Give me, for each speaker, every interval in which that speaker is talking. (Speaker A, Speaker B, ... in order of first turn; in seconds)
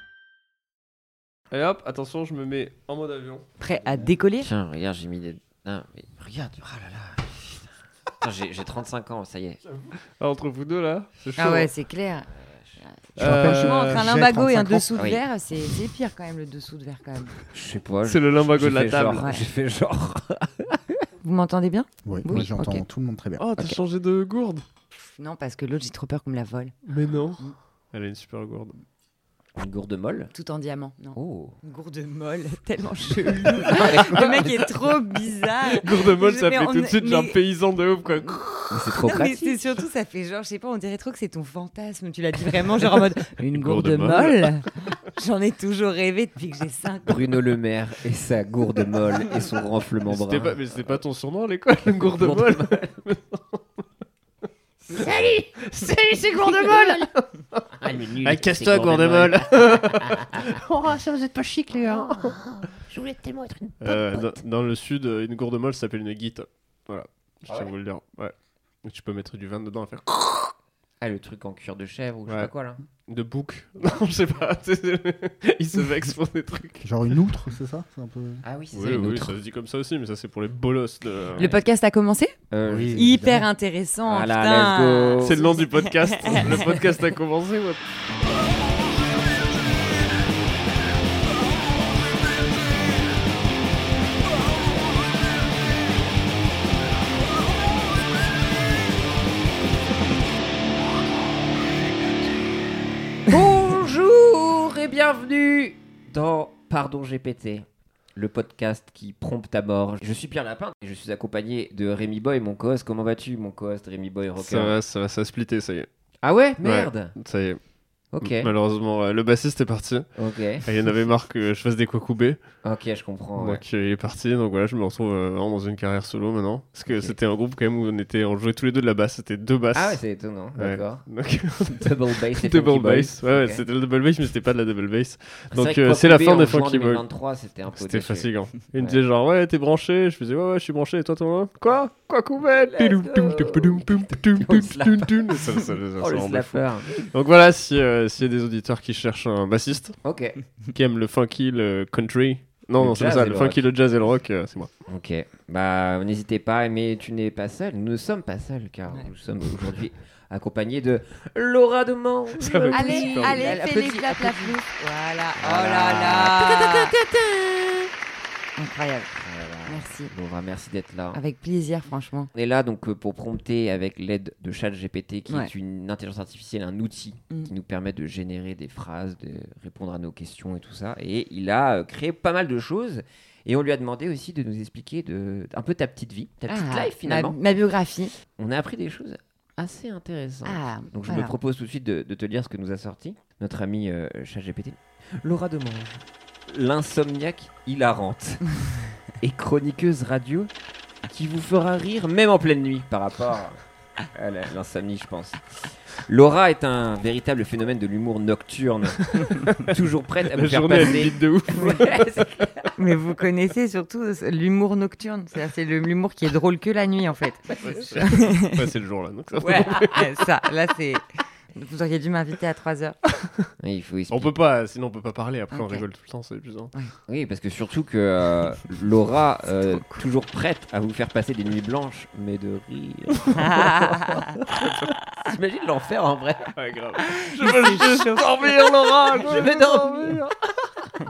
Speaker A: 1.5-3.4, 10.2-11.7, 13.2-14.1, 18.0-19.3, 23.4-24.6, 26.9-27.4, 27.9-28.7, 35.8-38.9, 43.5-44.6, 50.0-53.5, 55.6-62.4, 63.8-70.5, 73.1-76.8, 78.7-81.5, 85.2-87.8, 114.4-115.9, 116.6-117.6, 118.2-120.0, 120.6-122.4, 123.4-130.0, 130.6-137.0, 137.8-150.0, 150.7-154.7, 162.4-163.6, 209.0-209.8, 210.3-211.9, 217.6-220.0, 224.1-226.7, 234.4-234.9, 236.5-240.9
Speaker B: 3.6-4.5, 11.4-12.3, 12.8-17.3, 21.2-22.9, 25.2-26.7, 30.3-37.4, 39.0-47.2, 81.4-82.3, 82.9-86.5, 162.7-166.9, 168.6-169.1, 169.7-170.1, 171.1-172.3, 186.5-188.1, 190.4-191.3, 212.8-218.5, 219.8-221.0, 221.5-222.9, 225.5-225.8, 233.3-234.4, 237.2-238.5
Speaker C: 4.4-9.6, 14.9-15.2, 17.5-21.0, 29.5-30.3, 31.1-31.6, 33.4-34.7, 38.7-39.6, 47.1-51.0, 52.0-53.0, 54.9-55.7, 56.2-57.1, 57.8-60.6, 61.8-64.4, 71.0-72.8, 78.4-79.3, 82.5-83.3, 84.0-85.4, 86.4-86.8, 103.3-114.8, 116.2-117.1, 118.1-118.5, 120.2-120.6, 122.6-123.6, 126.9-127.2, 129.7-131.1, 131.7-133.6, 135.5-139.0, 142.5-146.9, 150.0-150.4, 152.8-153.6, 154.9-164.6, 165.4-167.9, 169.2-171.2, 172.3-187.3, 188.4-198.4, 199.2-200.5, 201.1-203.6, 204.1-205.4, 206.0-212.7, 219.4-219.9, 223.6-224.3, 227.1-233.8, 235.2-236.5, 239.0-240.2
Speaker D: 13.2-14.9, 22.0-23.4, 76.8-78.4, 82.7-83.4